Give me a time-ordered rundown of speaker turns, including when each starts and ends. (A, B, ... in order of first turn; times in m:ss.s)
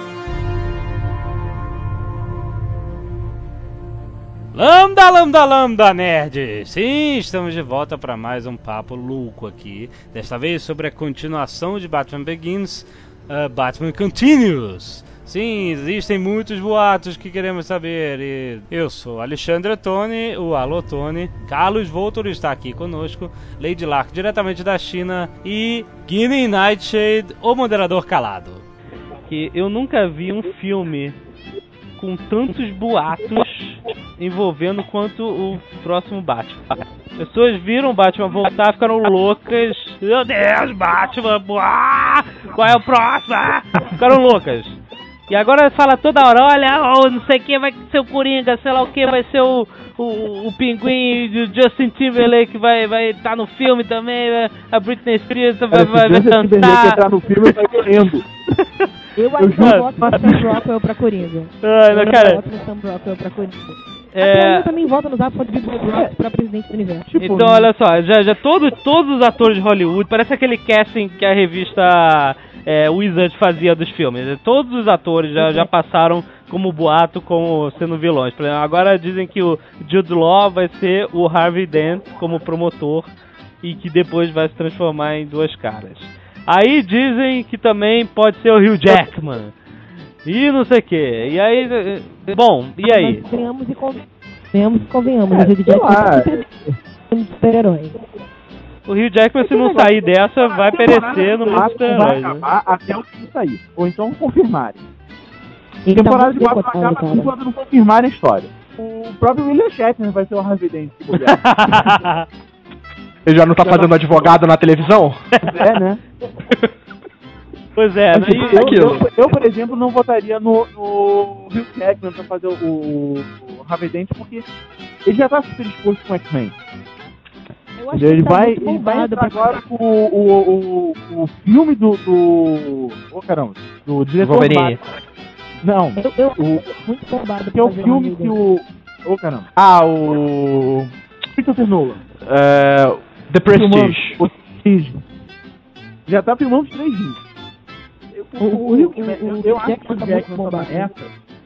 0:04.5-0:28.6 A
0:29.3-0:31.2 B
0:32.0-0:57.0 B
0:55.7-0:58.2 C
0:57.6-0:58.0 B
0:59.2-1:07.1 D
0:59.4-1:00.5 C
0:59.6-1:00.4 B
1:01.6-1:02.4 B
1:04.1-1:04.7 B
1:07.1-1:07.7 C
1:07.2-1:23.1 B
1:23.6-1:29.5 B
1:30.2-1:33.2 B
1:32.8-1:36.4 D
1:35.3-1:36.4 C
1:37.1-1:37.9 D
1:38.8-1:42.4 B
1:39.4-1:44.8 C
1:45.8-1:47.3 D
1:45.9-1:52.0 C
1:51.1-1:52.2 B
1:53.2-1:55.2 E
1:53.6-1:54.3 C
1:55.4-1:55.7 B
1:55.4-1:56.0 C
1:57.8-1:59.0 B
1:58.1-2:04.4 C
1:58.4-1:59.0 E
2:05.0-2:06.5 C
2:07.7-2:09.6 D
2:07.9-2:14.8 C
2:14.2-2:14.8 E
2:15.6-2:16.7 C
2:16.0-2:18.4 D
2:17.5-2:19.4 C
2:19.6-2:20.9 E
2:21.4-2:22.0 C
2:22.2-2:24.2 E
2:23.5-2:25.0 C
2:26.1-2:27.2 C
2:28.1-2:31.1 C
2:28.4-2:30.9 D